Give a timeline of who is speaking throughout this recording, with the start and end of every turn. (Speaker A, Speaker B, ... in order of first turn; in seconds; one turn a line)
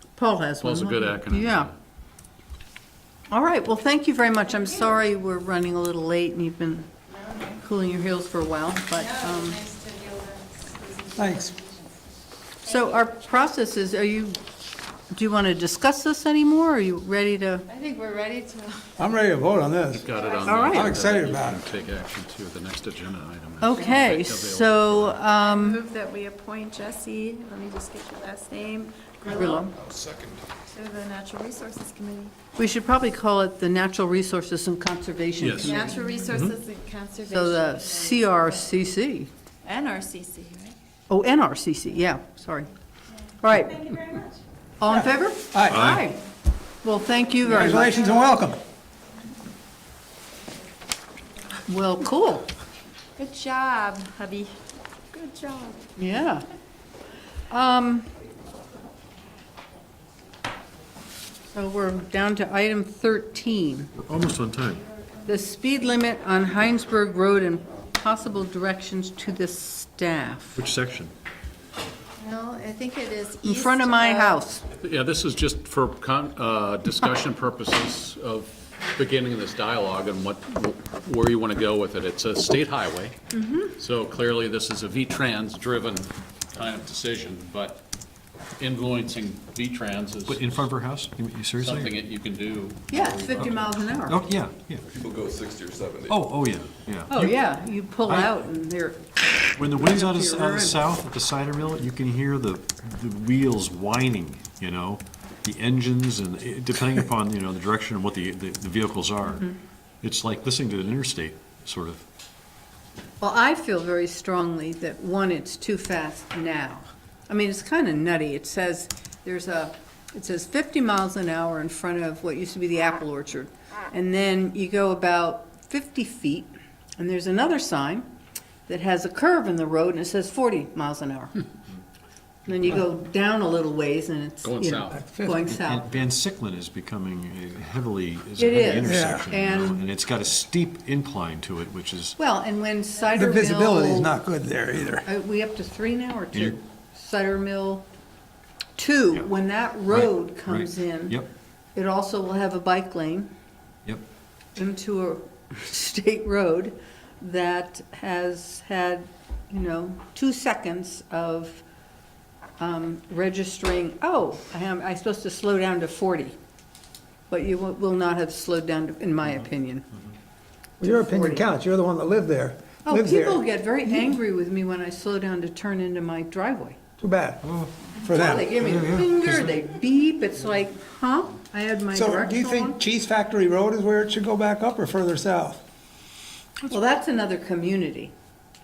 Speaker A: 0.1-1.7
Speaker B: 0.6-1.7
Speaker A: 3.3-6.9
Speaker C: 7.1-7.6
Speaker A: 7.5-9.6
Speaker C: 8.9-12.0
Speaker D: 11.2-11.5
Speaker A: 12.6-14.4
Speaker C: 12.7-13.0
Speaker A: 15.1-17.7
Speaker C: 17.7-18.9
Speaker D: 19.0-21.7
Speaker B: 19.9-25.2
Speaker C: 20.1-20.6
Speaker A: 20.4-20.9
Speaker A: 23.6-25.8
Speaker C: 25.4-29.6
Speaker A: 29.3-29.7
Speaker E: 29.5-30.4
Speaker C: 30.7-32.3
Speaker A: 32.5-36.2
Speaker B: 35.4-35.8
Speaker C: 35.5-38.2
Speaker F: 36.3-36.6
Speaker A: 37.3-39.3
Speaker C: 39.6-40.7
Speaker A: 41.1-42.7
Speaker A: 43.4-44.0
Speaker A: 44.8-46.2
Speaker D: 45.5-45.9
Speaker A: 46.8-48.1
Speaker D: 47.4-48.6
Speaker A: 51.7-52.5
Speaker C: 53.2-54.5
Speaker C: 55.1-55.8
Speaker A: 56.0-56.4
Speaker A: 57.5-58.1
Speaker A: 61.5-63.9
Speaker F: 64.0-64.8
Speaker A: 65.2-70.6
Speaker F: 70.5-71.1
Speaker C: 72.2-74.4
Speaker A: 73.4-74.6
Speaker B: 74.8-83.2
Speaker A: 83.3-83.7
Speaker B: 83.7-87.8
Speaker B: 88.6-90.5
Speaker F: 90.2-92.0
Speaker B: 91.6-93.5
Speaker A: 92.9-94.2
Speaker F: 94.1-94.8
Speaker E: 94.8-96.3
Speaker F: 96.1-97.3
Speaker A: 97.1-100.8
Speaker F: 98.0-98.3
Speaker F: 99.5-109.5
Speaker F: 110.0-112.0
Speaker A: 113.2-128.1
Speaker A: 128.7-131.4
Speaker A: 132.4-135.9
Speaker B: 134.4-135.0
Speaker D: 134.9-135.5
Speaker F: 135.5-142.1
Speaker A: 138.4-139.8
Speaker D: 138.8-139.3
Speaker A: 142.2-144.2
Speaker D: 143.2-145.0
Speaker A: 145.0-147.9
Speaker F: 146.3-146.6
Speaker A: 148.8-151.2
Speaker F: 149.9-151.3
Speaker A: 151.7-153.3
Speaker A: 154.6-161.6
Speaker A: 162.6-166.3
Speaker A: 167.3-169.8
Speaker A: 170.8-171.5
Speaker D: 170.8-174.1
Speaker A: 172.8-176.8
Speaker D: 177.0-178.7
Speaker F: 177.4-177.7
Speaker A: 178.0-182.8
Speaker F: 178.5-179.5
Speaker D: 181.9-185.6
Speaker A: 186.7-188.1